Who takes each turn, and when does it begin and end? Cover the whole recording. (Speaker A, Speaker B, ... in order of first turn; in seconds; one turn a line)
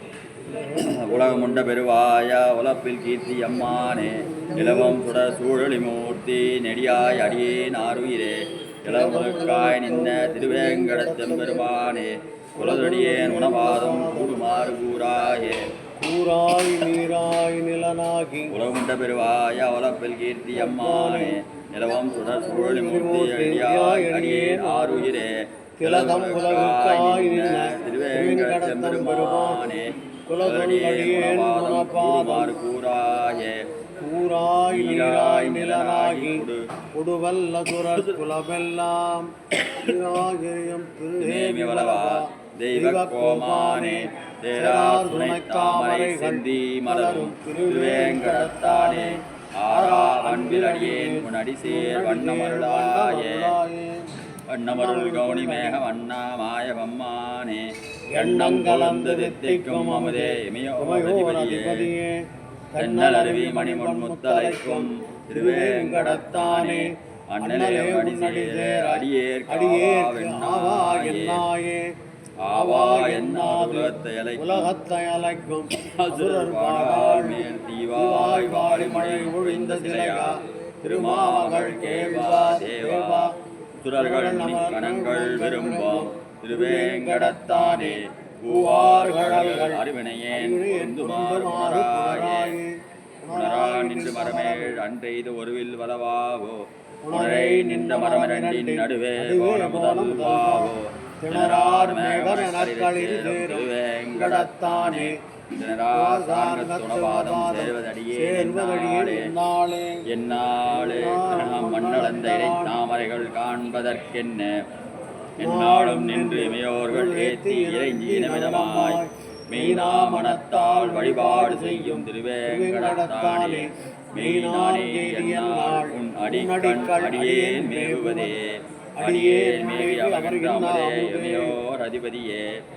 Speaker A: 0.5-1.7
Speaker B: 0.7-15.7
Speaker A: 4.1-5.0
Speaker A: 8.8-11.8
Speaker A: 12.6-14.7
Speaker A: 16.0-18.6
Speaker B: 18.5-33.6
Speaker A: 20.5-21.4
Speaker A: 22.2-25.2
Speaker A: 25.8-29.7
Speaker A: 30.2-32.6
Speaker A: 34.0-54.1
Speaker B: 34.7-36.6
Speaker B: 37.9-38.2
Speaker B: 39.6-39.9
Speaker B: 41.2-53.5
Speaker B: 54.5-61.9
Speaker A: 54.7-55.8
Speaker A: 58.1-72.0
Speaker B: 62.8-71.4
Speaker B: 72.4-74.7
Speaker A: 72.5-83.4
Speaker B: 75.8-83.3
Speaker B: 83.8-92.6
Speaker A: 84.0-94.8
Speaker B: 93.3-109.3
Speaker A: 97.0-105.2
Speaker A: 105.9-110.0
Speaker B: 110.0-114.5
Speaker A: 110.7-112.7
Speaker B: 115.4-132.6
Speaker A: 115.4-128.3
Speaker A: 129.0-131.6